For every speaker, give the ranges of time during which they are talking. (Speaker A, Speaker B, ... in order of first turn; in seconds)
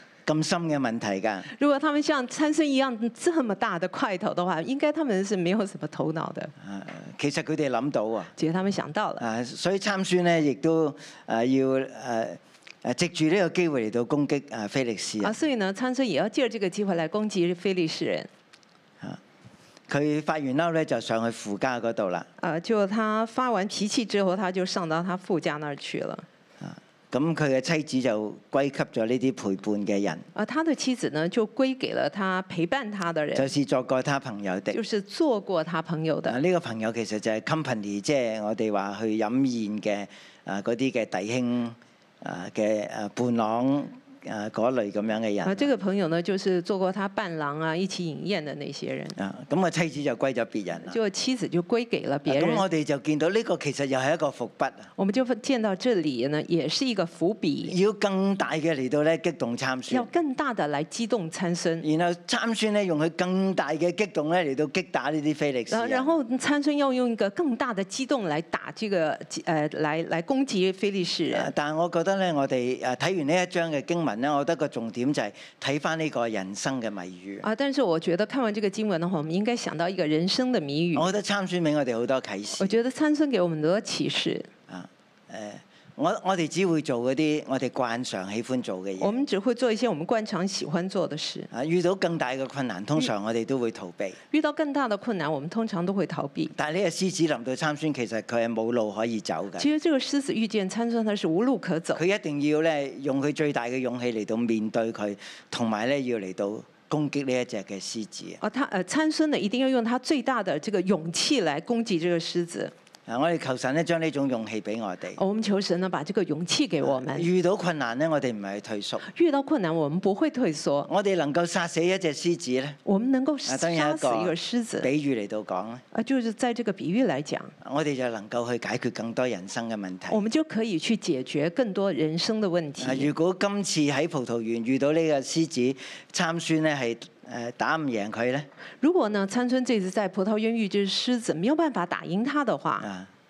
Speaker A: 0.3-1.5, 6.6-8.3, 9.2-15.4, 19.9-22.3, 26.6-30.3, 33.4-34.8, 36.2-45.7, 49.2-51.0, 52.3-54.9, 57.6-60.1, 61.8-66.1, 71.3-77.5, 81.0-82.8, 84.7-89.1, 91.5-94.2, 96.5-99.7, 101.9-108.4, 113.1-115.2, 116.8-119.1, 120.9-122.8, 123.5-125.8, 127.6-130.2, 132.8-138.5, 142.8-143.1
Speaker B: 1.6-6.5, 8.4-9.2, 15.2-18.3, 22.4-26.2, 30.4-33.5, 34.7-36.4, 45.4-49.2, 50.9-52.6, 55.0-57.8, 59.9-61.9, 65.7-71.5, 77.4-81.1, 82.6-84.5, 89.0-91.5, 94.3-96.5, 99.6-102.0, 108.4-112.7, 115.2-117.3, 119.1-120.9, 122.8-124.9, 125.9-127.5, 130.1-133.1, 138.8-142.9